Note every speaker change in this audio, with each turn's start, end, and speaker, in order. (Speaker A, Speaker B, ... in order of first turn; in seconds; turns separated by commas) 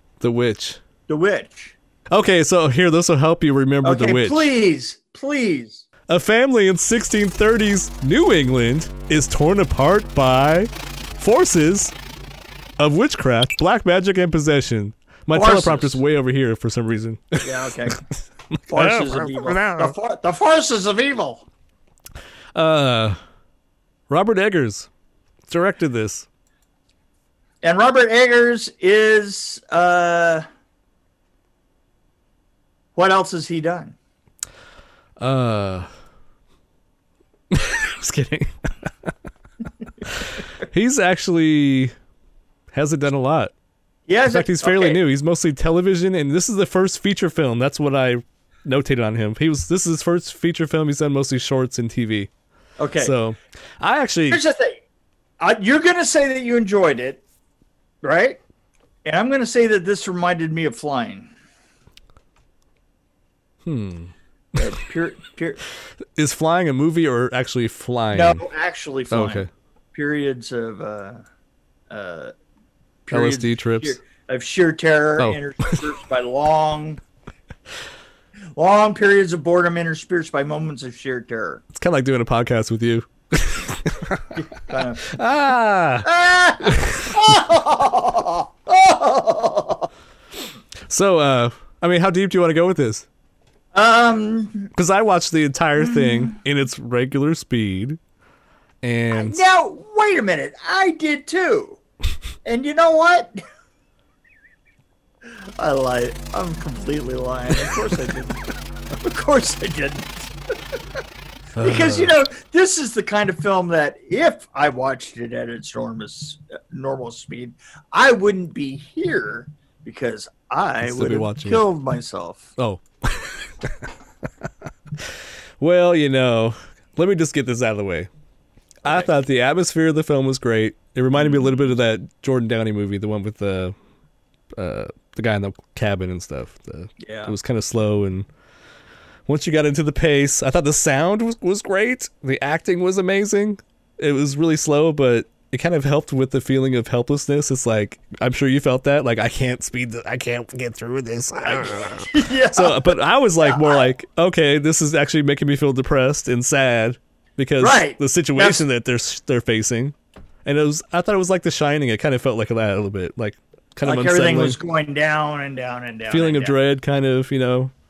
Speaker A: 0.2-0.8, Speaker B: 1.1-1.8, Speaker A: 2.1-4.5, Speaker B: 3.8-5.8, Speaker A: 6.1-11.9, Speaker A: 12.8-17.5, Speaker B: 15.3-16.0, Speaker B: 17.4-18.0, Speaker A: 18.6-19.9, Speaker B: 18.7-21.4, Speaker A: 22.5-23.2, Speaker A: 24.1-24.9, Speaker A: 25.5-26.3, Speaker B: 27.6-30.4, Speaker B: 32.9-34.0, Speaker A: 35.2-35.9, Speaker A: 37.5-39.1, Speaker A: 40.0-41.9, Speaker A: 42.7-43.5, Speaker B: 44.1-45.0, Speaker A: 44.3-52.3, Speaker B: 52.8-53.1, Speaker A: 53.0-54.4, Speaker B: 54.3-54.8, Speaker B: 55.4-57.2, Speaker B: 58.0-58.4, Speaker B: 59.0-61.3, Speaker A: 63.6-64.1, Speaker B: 64.5-65.6, Speaker A: 66.2-68.4, Speaker B: 68.1-71.2, Speaker A: 69.1-69.5, Speaker B: 71.9-72.3, Speaker B: 73.0-77.0, Speaker A: 73.1-74.0, Speaker A: 75.2-75.9, Speaker B: 78.5-81.6, Speaker A: 81.7-84.3, Speaker B: 84.5-85.2, Speaker A: 85.1-86.1, Speaker B: 86.0-89.9, Speaker A: 86.6-87.2, Speaker A: 90.9-93.0, Speaker B: 93.7-94.7, Speaker A: 94.8-98.0, Speaker A: 98.8-99.4, Speaker B: 99.1-101.8, Speaker B: 102.4-103.3, Speaker B: 105.6-108.4, Speaker B: 109.0-110.3, Speaker A: 111.6-112.1, Speaker B: 111.6-122.5, Speaker A: 120.8-121.6, Speaker A: 122.6-123.9, Speaker A: 125.0-128.1, Speaker B: 128.8-129.1, Speaker A: 128.8-133.7, Speaker A: 134.6-138.3, Speaker B: 137.0-137.3, Speaker A: 139.3-164.6, Speaker B: 151.4-153.8, Speaker B: 157.6-158.6, Speaker B: 163.8-166.6, Speaker A: 166.1-167.7